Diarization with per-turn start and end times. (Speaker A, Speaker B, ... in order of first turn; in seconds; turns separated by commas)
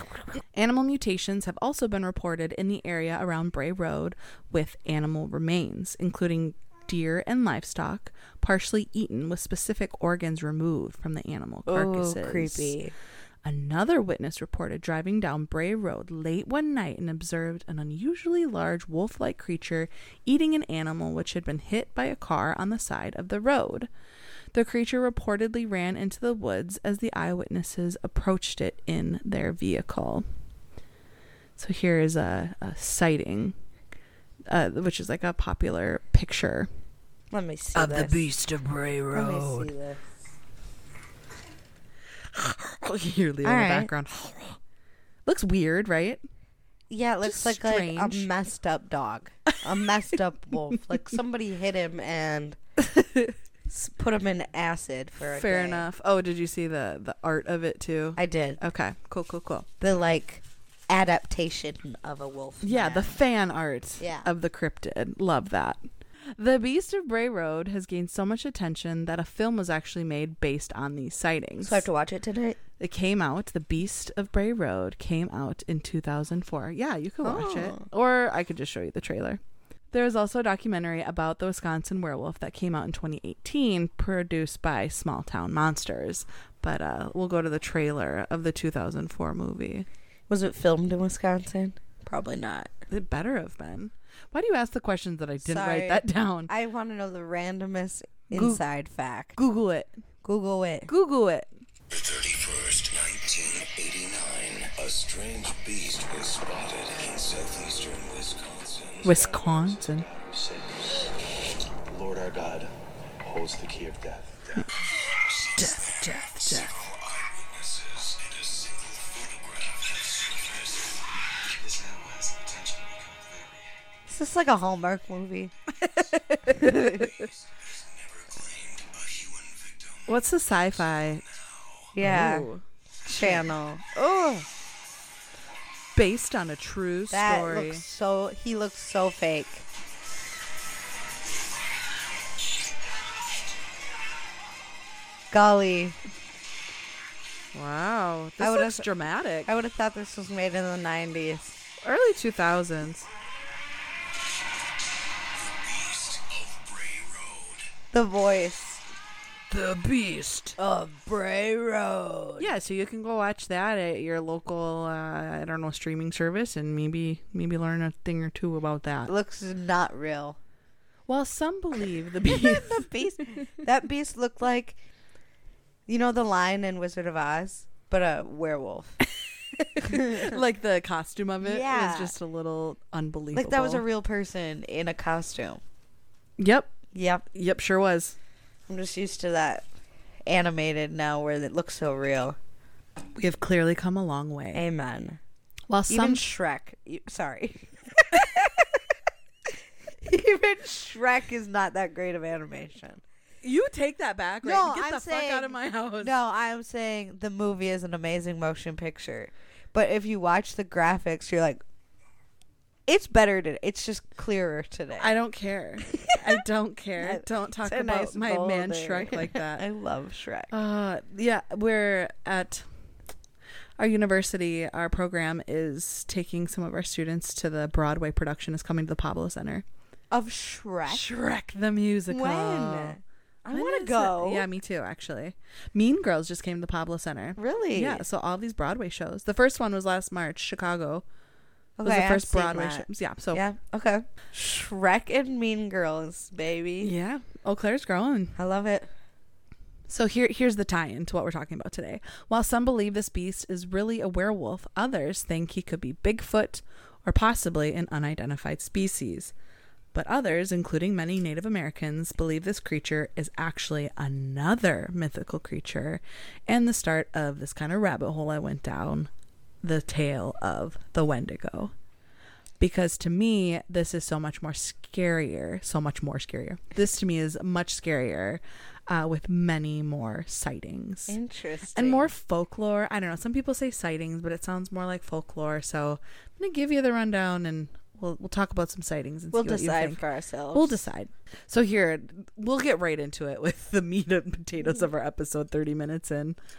Speaker A: 0.5-12.8, Speaker B: 11.7-12.9, Speaker A: 13.4-23.9, Speaker A: 24.5-30.2, Speaker A: 31.6-33.5, Speaker A: 34.5-36.7, Speaker B: 37.3-38.2, Speaker A: 37.8-39.7, Speaker B: 39.1-40.0, Speaker A: 42.3-44.6, Speaker B: 43.4-43.9, Speaker A: 45.3-46.2, Speaker B: 46.9-52.6, Speaker A: 47.2-48.3, Speaker B: 53.7-55.9, Speaker A: 55.4-59.7, Speaker B: 58.2-58.6, Speaker B: 59.8-63.2, Speaker A: 62.6-65.8, Speaker B: 64.0-64.3, Speaker A: 66.4-71.9, Speaker B: 71.6-72.6, Speaker A: 72.8-79.4, Speaker B: 77.2-77.9, Speaker A: 79.9-89.9, Speaker B: 90.3-92.7, Speaker A: 92.9-96.5, Speaker B: 95.4-99.4, Speaker A: 98.3-98.6, Speaker A: 99.4-99.9, Speaker B: 100.2-100.9, Speaker A: 100.9-101.5, Speaker C: 101.9-123.7, Speaker A: 109.0-110.1, Speaker A: 115.6-116.8, Speaker B: 124.1-127.1, Speaker C: 126.8-130.2, Speaker A: 130.1-131.2, Speaker C: 131.2-132.0, Speaker B: 131.9-132.5, Speaker A: 132.0-133.5, Speaker B: 133.1-134.4, Speaker A: 135.9-137.8, Speaker B: 137.1-139.7, Speaker B: 145.3-146.0, Speaker A: 147.5-149.5, Speaker B: 148.4-148.9, Speaker B: 149.5-151.6, Speaker A: 151.8-153.1, Speaker C: 155.3-157.7, Speaker B: 157.9-158.8, Speaker A: 159.5-160.6, Speaker B: 160.6-162.5, Speaker A: 162.4-169.1, Speaker B: 169.1-170.4, Speaker A: 171.1-172.9, Speaker B: 172.3-174.8, Speaker B: 175.9-179.0, Speaker B: 179.6-180.4, Speaker A: 179.8-183.8, Speaker B: 181.4-182.2, Speaker B: 183.3-185.6, Speaker A: 186.4-186.7, Speaker B: 186.9-187.2, Speaker A: 187.3-188.2, Speaker B: 188.7-189.7, Speaker B: 190.3-192.4, Speaker A: 193.2-194.6, Speaker B: 194.5-195.2, Speaker A: 195.7-196.3, Speaker B: 195.9-198.8, Speaker B: 200.0-203.0, Speaker A: 203.4-206.1, Speaker B: 204.4-211.6, Speaker B: 212.9-215.1, Speaker A: 215.0-219.6, Speaker B: 215.9-216.4, Speaker B: 217.0-220.5, Speaker A: 220.5-222.7, Speaker A: 223.8-229.6, Speaker B: 230.1-231.1, Speaker A: 230.9-233.0, Speaker B: 232.1-234.5, Speaker A: 233.5-241.0, Speaker B: 237.4-238.0, Speaker B: 241.8-246.9, Speaker A: 241.8-243.4, Speaker A: 246.8-248.4, Speaker B: 248.4-248.9, Speaker A: 249.9-259.3, Speaker A: 259.9-269.1, Speaker A: 269.6-271.7, Speaker A: 272.6-281.2, Speaker B: 281.1-282.1, Speaker A: 281.8-296.4, Speaker B: 289.3-290.8